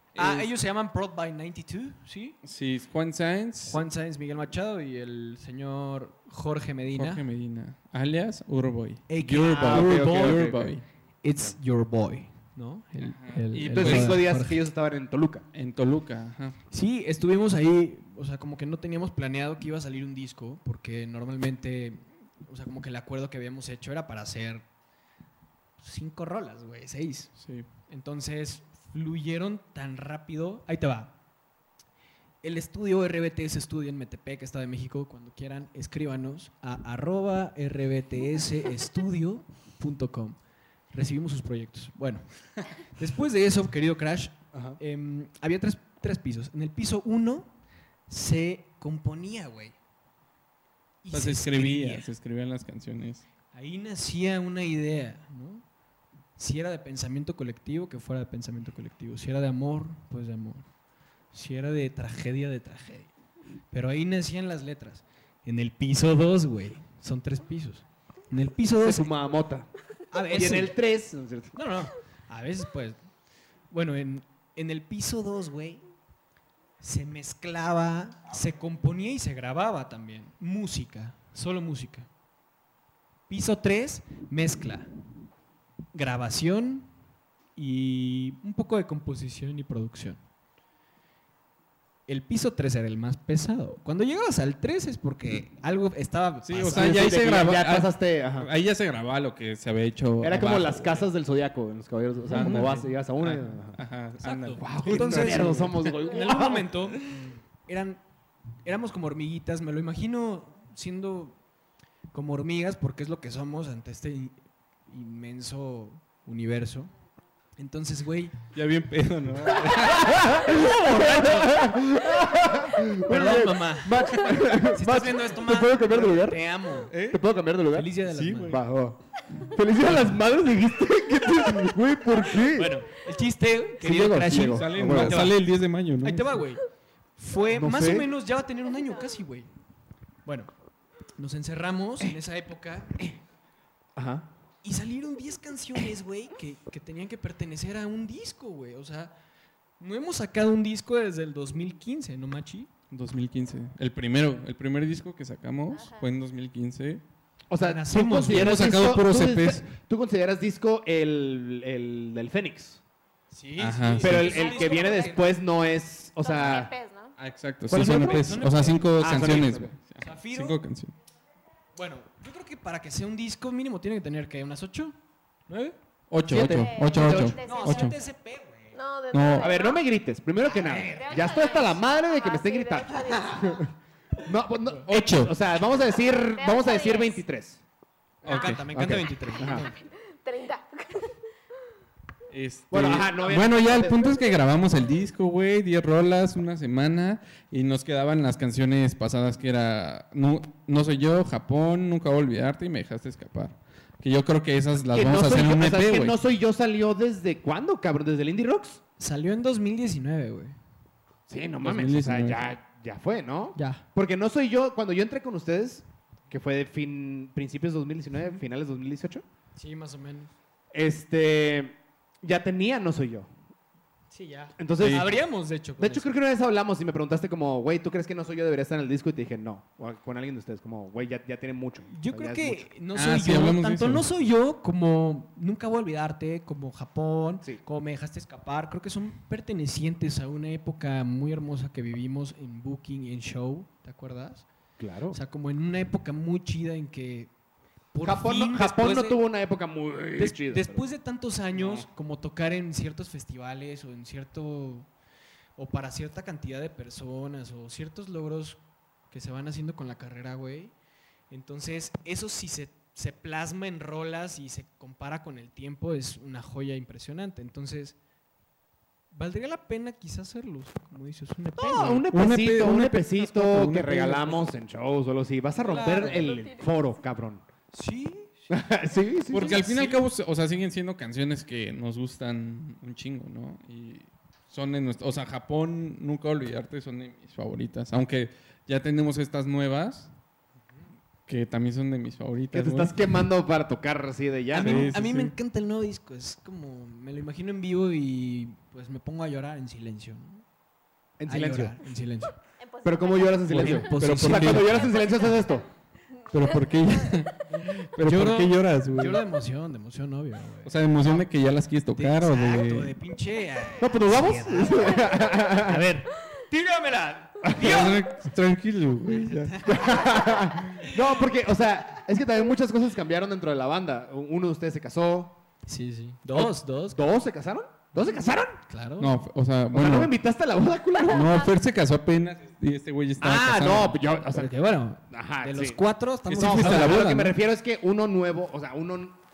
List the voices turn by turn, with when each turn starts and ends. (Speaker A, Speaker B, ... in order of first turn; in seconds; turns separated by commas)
Speaker A: 0.1-0.5, Speaker B: 0.2-2.4, Speaker A: 2.4-3.8, Speaker B: 3.7-7.2, Speaker A: 7.0-10.8, Speaker B: 9.1-10.5, Speaker C: 9.4-10.7, Speaker B: 11.2-14.6, Speaker A: 13.0-14.3, Speaker C: 13.7-15.4, Speaker A: 15.5-16.6, Speaker B: 16.7-24.6, Speaker B: 25.8-27.4, Speaker A: 27.4-27.7, Speaker B: 27.9-31.1, Speaker B: 32.4-40.4, Speaker B: 40.9-47.5, Speaker C: 44.5-44.8, Speaker B: 48.1-49.8, Speaker B: 51.0-52.1, Speaker A: 51.1-53.2, Speaker B: 53.5-55.6, Speaker B: 56.4-60.7, Speaker B: 61.3-63.1, Speaker B: 63.7-69.1, Speaker C: 68.8-69.7, Speaker B: 70.1-70.8, Speaker C: 70.3-71.5, Speaker B: 71.5-73.0, Speaker B: 73.7-75.8, Speaker B: 76.8-82.1, Speaker B: 83.3-84.9, Speaker B: 85.9-86.9, Speaker B: 87.6-90.2, Speaker B: 92.1-97.1, Speaker A: 96.4-101.1, Speaker C: 96.7-98.5, Speaker C: 100.2-103.8, Speaker A: 102.3-106.0, Speaker B: 102.3-102.8, Speaker B: 104.2-108.0, Speaker C: 104.6-106.8, Speaker B: 108.6-111.4, Speaker B: 112.1-116.9, Speaker B: 117.6-118.4, Speaker A: 118.5-120.6, Speaker B: 119.7-121.6, Speaker C: 120.1-126.4, Speaker B: 123.0-127.0, Speaker A: 126.9-127.2, Speaker C: 127.0-127.9, Speaker B: 127.7-128.6, Speaker A: 128.1-128.6, Speaker C: 128.5-132.8, Speaker B: 132.5-135.4, Speaker C: 133.8-135.3, Speaker A: 134.4-136.3, Speaker B: 136.0-136.7, Speaker B: 137.2-139.5, Speaker C: 137.5-138.1, Speaker B: 140.2-140.5, Speaker B: 141.2-143.0, Speaker C: 144.0-144.3, Speaker B: 144.6-149.2, Speaker B: 149.8-152.7, Speaker A: 152.9-157.0, Speaker D: 155.7-156.1, Speaker C: 157.5-162.8, Speaker B: 157.6-158.7, Speaker A: 158.2-159.7, Speaker B: 163.3-165.2, Speaker A: 163.6-164.3, Speaker C: 164.0-166.7, Speaker D: 164.3-165.1, Speaker D: 166.2-167.2, Speaker A: 167.2-170.9, Speaker C: 167.7-169.8, Speaker B: 167.8-169.3, Speaker B: 170.0-170.6, Speaker B: 171.8-175.0, Speaker B: 175.5-175.8, Speaker A: 176.1-178.0, Speaker C: 176.3-177.4, Speaker D: 176.4-178.0, Speaker B: 177.4-178.8, Speaker E: 178.7-179.8, Speaker A: 179.1-179.5, Speaker C: 179.4-183.7, Speaker B: 180.4-181.6, Speaker D: 180.9-183.2, Speaker E: 182.2-183.6, Speaker C: 184.2-187.6, Speaker A: 184.8-185.3, Speaker D: 186.3-187.2, Speaker B: 188.2-189.7, Speaker A: 188.2-188.7, Speaker C: 188.7-189.7, Speaker E: 189.7-191.2, Speaker A: 192.3-206.2, Speaker C: 192.7-194.1, Speaker C: 204.8-208.8, Speaker B: 209.0-210.6, Speaker C: 211.3-219.2, Speaker A: 211.6-212.5, Speaker B: 213.6-213.8, Speaker B: 219.6-220.3, Speaker C: 220.7-223.3, Speaker B: 224.1-226.1, Speaker C: 224.6-225.1, Speaker A: 224.8-225.1, Speaker C: 225.8-232.7, Speaker B: 231.9-244.5, Speaker A: 232.9-234.1, Speaker C: 244.8-245.2, Speaker B: 245.1-247.3, Speaker B: 247.9-249.2, Speaker C: 248.0-250.9, Speaker B: 250.2-254.9, Speaker C: 251.6-251.8, Speaker B: 255.6-260.7, Speaker B: 261.3-268.0, Speaker B: 269.1-272.1, Speaker C: 271.6-277.4, Speaker A: 271.8-274.5, Speaker B: 275.6-276.3, Speaker E: 275.7-276.7, Speaker B: 277.7-278.6, Speaker C: 278.5-279.6, Speaker A: 279.3-290.1, Speaker B: 279.3-280.0, Speaker A: 291.3-293.1, Speaker C: 292.5-294.9, Speaker B: 294.5-300.4, Speaker A: 294.6-295.3, Speaker C: 301.2-301.8, Speaker B: 301.3-302.4, Speaker D: 302.6-303.8, Speaker C: 302.8-305.7, Speaker A: 303.5-304.9, Speaker B: 303.5-305.2, Speaker D: 304.9-305.6, Speaker A: 306.3-309.2, Speaker B: 307.5-311.2, Speaker A: 310.6-312.9, Speaker B: 311.9-318.2, Speaker C: 313.8-315.9, Speaker C: 317.4-317.9, Speaker A: 317.6-319.6, Speaker B: 319.1-321.3, Speaker C: 319.6-325.4, Speaker B: 325.7-327.0, Speaker C: 326.3-328.6, Speaker B: 328.7-329.1, Speaker A: 329.0-330.1, Speaker C: 329.7-331.4, Speaker A: 331.1-334.0, Speaker C: 333.2-334.5, Speaker B: 334.3-337.3, Speaker C: 335.1-339.2, Speaker A: 336.3-337.3